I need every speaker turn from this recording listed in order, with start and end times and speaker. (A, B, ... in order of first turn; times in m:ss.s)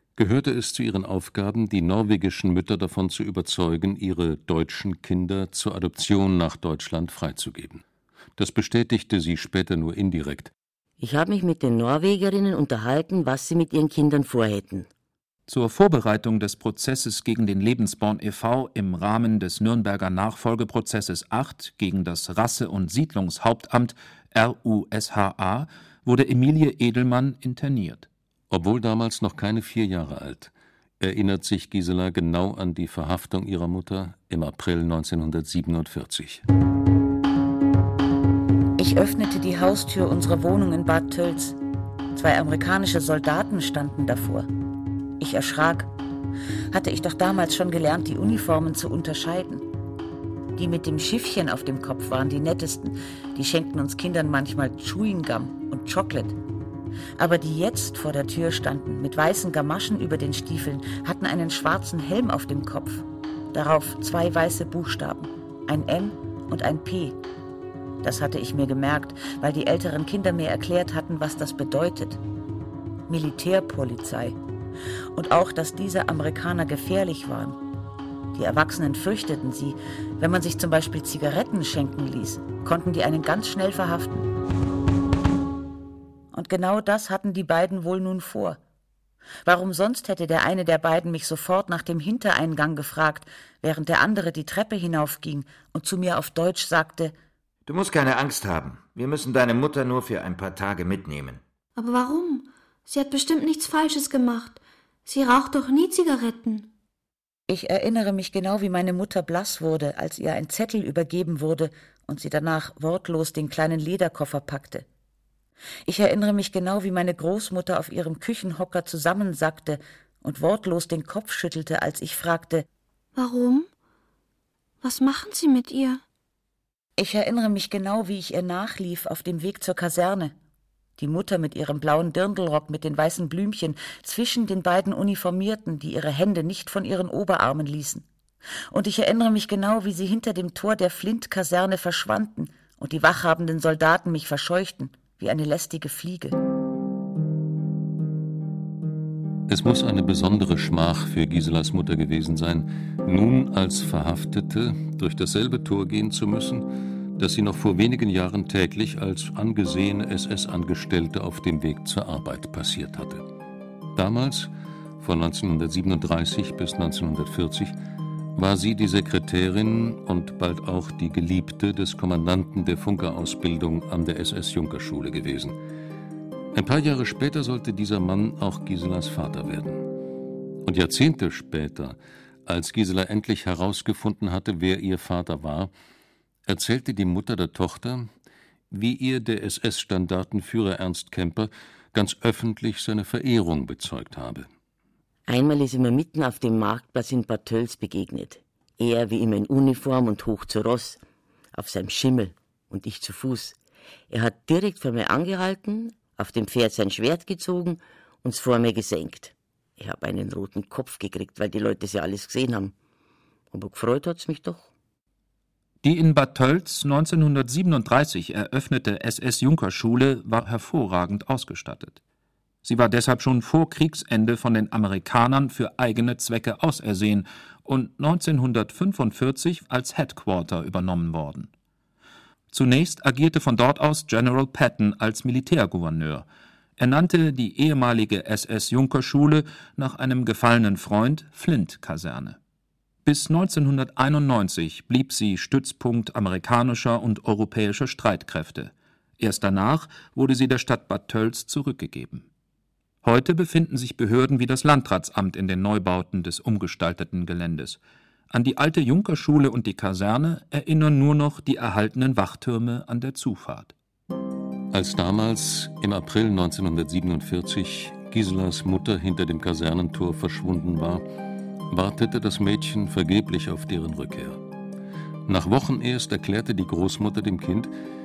0:00.2-0:07.8 A
0:08.4-0:10.5 A
0:11.0-0:14.9 B
0:15.5-0:28.1 C
0:28.5-0:36.4 A
0:38.8-0:41.6 D
0:42.1-0:44.5 D
0:45.2-0:45.9 D
0:46.7-0:49.6 D
0:50.6-0:56.4 D
0:57.2-1:07.2 D
1:08.0-1:12.2 D
1:13.1-1:14.4 D
1:15.2-1:17.6 D
1:18.3-1:24.3 D
1:26.3-1:28.6 D
1:29.4-1:37.1 D
1:37.7-1:41.4 E
1:41.8-1:46.7 F
1:47.5-1:54.9 D
1:55.9-2:02.7 D
2:03.2-2:03.7 F
2:04.8-2:06.0 F
2:07.0-2:10.3 D
2:11.0-2:18.1 D
2:18.7-2:26.4 D
2:29.5-2:43.3 A
2:43.9-2:47.8 A
2:48.4-2:55.6 A
2:56.5-2:59.9 A
3:00.6-3:05.7 A
3:06.5-3:08.1 A
3:08.7-3:14.5 A
3:15.3-3:21.0 B
3:21.5-3:23.6 B
3:24.1-3:32.7 B
3:33.5-3:34.7 B
3:35.8-3:42.0 C
3:42.6-3:51.5 C
3:52.5-3:56.3 C
3:56.8-4:02.4 C
4:03.0-4:12.3 C
4:13.0-4:17.8 C
4:18.3-4:23.7 C
4:24.7-4:31.0 A
4:31.7-4:34.4 A
4:35.3-4:37.7 A